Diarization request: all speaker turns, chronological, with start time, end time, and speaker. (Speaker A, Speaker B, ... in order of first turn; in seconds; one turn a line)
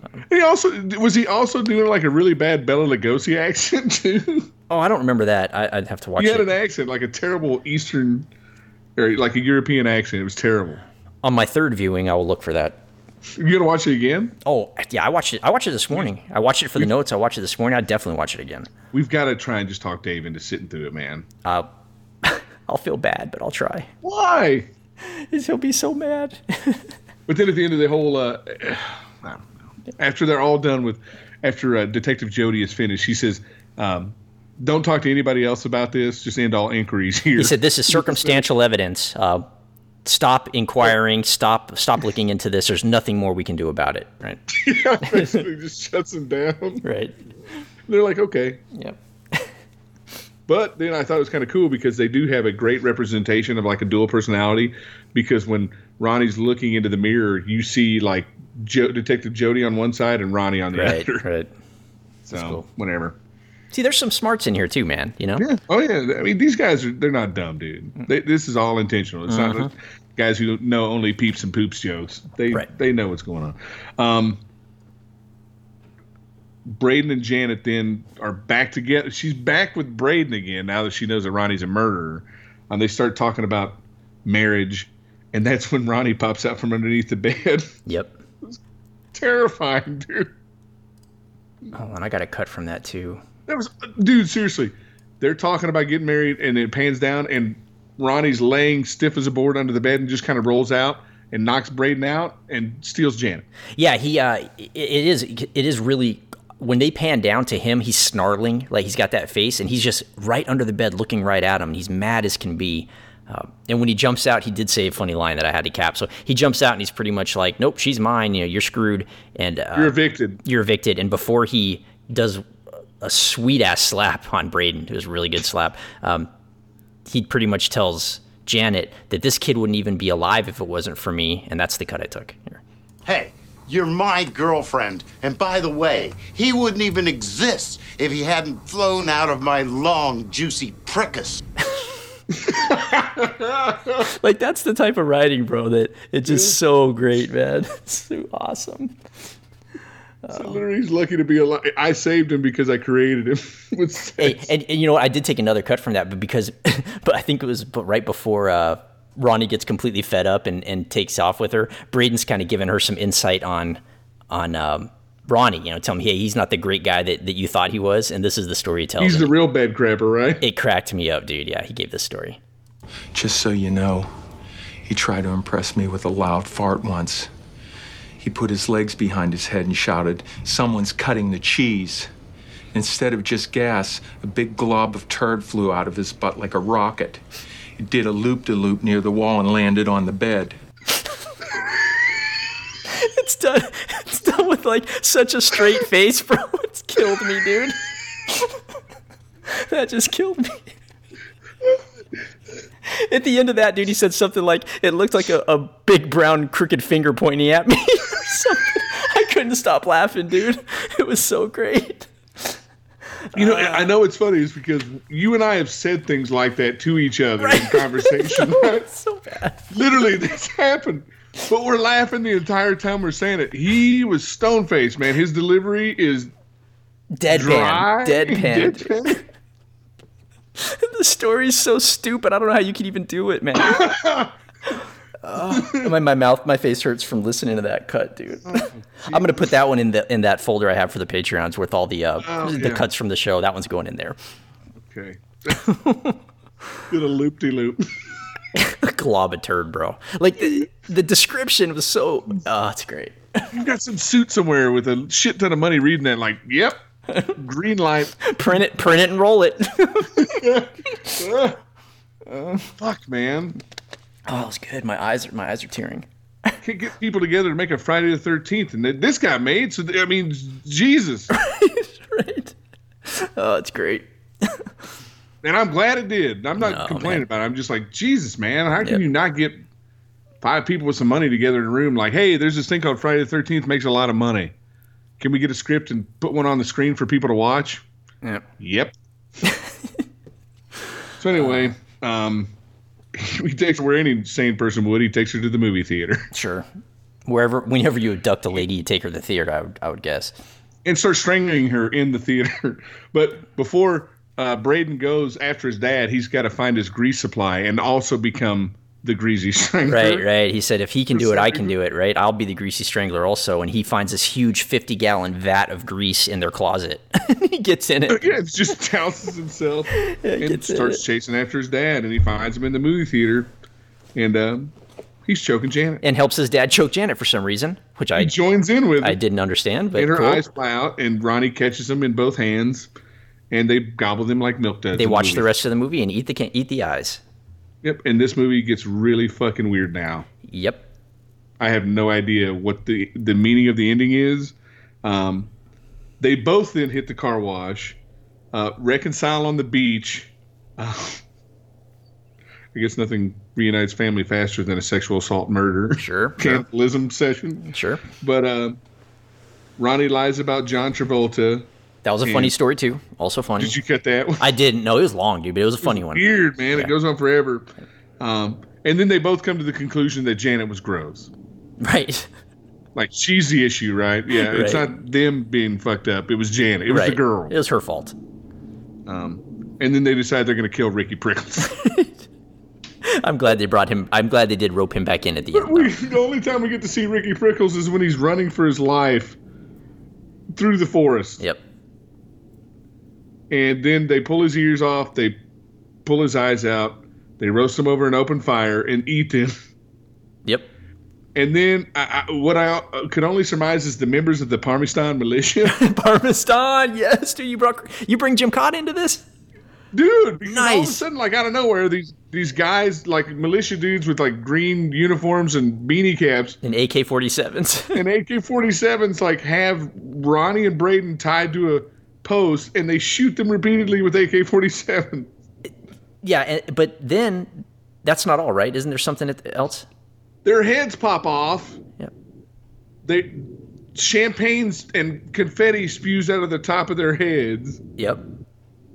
Speaker A: 0.3-4.5
Speaker B: 4.7-6.5
Speaker A: 6.2-8.3
Speaker A: 8.9-10.8
Speaker B: 11.2-12.8
Speaker A: 13.3-14.3
Speaker B: 14.4-18.7
Speaker A: 18.9-21.2
Speaker B: 22.2-23.9
Speaker A: 24.0-24.7
Speaker B: 25.0-26.8
Speaker A: 27.3-38.4
Speaker B: 37.4-39.5
Speaker B: 40.0-44.4
Speaker A: 44.5-46.8
Speaker B: 45.0-45.4
Speaker B: 46.8-47.1
Speaker A: 47.9-48.6
Speaker B: 48.7-49.5
Speaker A: 50.5-61.2
Speaker B: 60.7-61.5
Speaker B: 62.3-62.6
Speaker A: 62.3-63.2
Speaker B: 63.7-65.5
Speaker A: 65.4-74.4
Speaker B: 69.3-69.7
Speaker A: 76.7-87.7
Speaker B: 87.8-88.1
Speaker A: 89.1-90.3
Speaker B: 91.7-93.2
Speaker A: 93.5-103.5
Speaker B: 103.8-122.4
Speaker A: 119.7-120.4
Speaker B: 123.0-126.3
Speaker B: 127.1-132.6
Speaker C: 133.1-141.4
Speaker A: 142.4-144.1
Speaker B: 144.0-148.9
Speaker A: 146.3-146.6
Speaker B: 150.2-150.6
Speaker A: 150.3-154.5
Speaker B: 154.2-169.3
Speaker A: 169.0-170.4
Speaker B: 170.4-172.4
Speaker D: 173.1-174.1
Speaker D: 174.8-177.3
Speaker D: 178.2-182.1
Speaker D: 182.7-187.2
Speaker D: 187.8-190.6
Speaker B: 192.9-198.5
Speaker B: 199.5-200.7
Speaker B: 202.9-212.5
Speaker B: 213.3-213.9
Speaker A: 213.3-218.9
Speaker B: 217.4-219.8
Speaker A: 219.7-226.3
Speaker B: 227.1-229.2
Speaker A: 227.3-229.2
Speaker B: 230.6-234.0
Speaker A: 233.6-234.3
Speaker B: 235.2-244.2
Speaker A: 235.5-235.9
Speaker A: 238.5-239.5
Speaker A: 242.2-242.8
Speaker A: 244.8-245.6
Speaker B: 245.6-246.2
Speaker A: 246.9-247.9
Speaker B: 248.5-253.5
Speaker A: 253.5-256.8
Speaker B: 257.1-257.4
Speaker A: 257.4-258.2
Speaker B: 258.2-260.5
Speaker A: 260.1-261.6
Speaker B: 262.3-262.6
Speaker A: 262.8-263.6
Speaker B: 264.3-266.6
Speaker A: 266.6-271.3
Speaker B: 271.3-272.5
Speaker B: 273.1-274.7
Speaker A: 275.4-279.6
Speaker B: 276.6-277.2
Speaker A: 280.4-284.5
Speaker A: 285.2-287.8
Speaker A: 288.6-288.9
Speaker A: 291.2-292.5
Speaker B: 291.4-291.7
Speaker A: 293.1-296.3
Speaker B: 296.3-296.6
Speaker B: 297.2-300.3
Speaker A: 300.8-310.2
Speaker B: 309.9-318.3
Speaker A: 311.1-311.8
Speaker A: 318.1-323.5
Speaker B: 319.9-321.0
Speaker A: 324.1-324.7
Speaker A: 325.2-326.0
Speaker B: 326.0-328.3
Speaker A: 328.1-329.2
Speaker B: 329.0-330.4
Speaker A: 329.9-332.9
Speaker A: 333.5-335.5
Speaker B: 334.9-337.2
Speaker A: 337.8-340.3
Speaker B: 340.5-340.9
Speaker A: 341.6-345.5
Speaker A: 346.2-348.0
Speaker A: 348.5-351.2
Speaker A: 352.7-358.8
Speaker B: 356.0-356.6
Speaker B: 357.7-358.0
Speaker A: 359.8-361.7
Speaker B: 362.0-363.8
Speaker A: 362.2-362.5
Speaker A: 363.6-364.5
Speaker B: 364.4-366.9
Speaker A: 365.8-371.3
Speaker B: 371.8-372.3
Speaker A: 372.9-377.5
Speaker B: 374.3-374.9
Speaker B: 376.9-378.1
Speaker A: 379.1-381.7
Speaker B: 381.6-382.2
Speaker B: 383.0-385.9
Speaker A: 385.5-389.4
Speaker A: 390.5-391.4
Speaker A: 393.5-395.4
Speaker A: 396.0-399.5
Speaker A: 401.3-405.8
Speaker B: 405.6-409.2
Speaker A: 409.9-416.6
Speaker B: 410.4-411.0
Speaker B: 416.6-418.0
Speaker A: 417.9-425.3
Speaker B: 426.2-429.9
Speaker A: 430.4-431.8
Speaker A: 433.0-437.8
Speaker B: 438.0-438.2